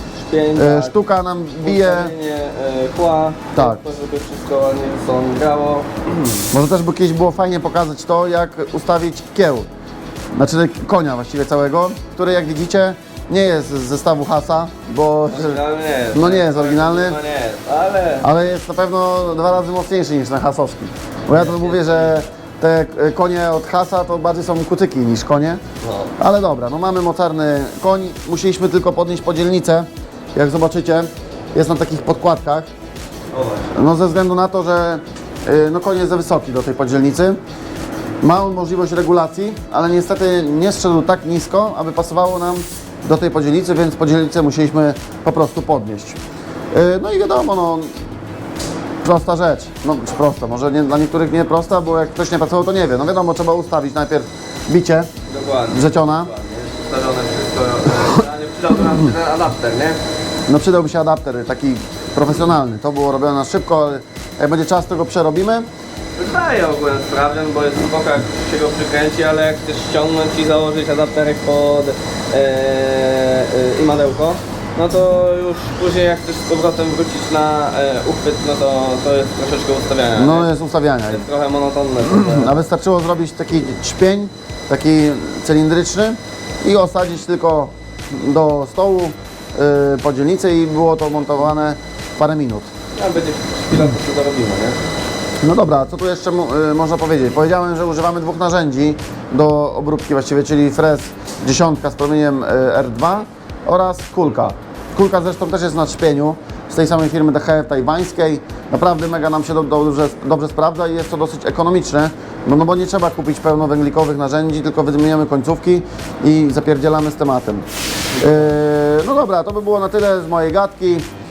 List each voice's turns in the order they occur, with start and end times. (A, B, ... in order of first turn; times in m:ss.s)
0:00.2-0:01.0 A
0:00.6-0:02.1 B
0:01.6-0:06.2 A
0:03.6-0:03.8 B
0:06.5-0:09.7 B
0:10.4-0:15.6 B
0:15.3-0:18.3 A
0:16.1-0:17.2 B
0:18.2-0:25.6 B
0:21.3-0:22.1 A
0:25.8-0:26.1 A
0:26.2-0:32.7 B
0:33.3-0:33.7 A
0:33.7-0:37.4 B
0:38.2-0:46.2 B
0:46.7-0:47.9 B
0:49.0-0:55.1 B
0:55.3-1:00.0 A
0:55.7-0:56.3 B
1:00.5-1:05.7 B
1:06.2-1:20.5 A
1:20.2-1:21.2 B
1:21.1-1:22.5 A
1:22.0-1:32.7 B
1:33.0-1:34.8 A
1:35.4-1:57.7 B
1:58.2-2:01.1 B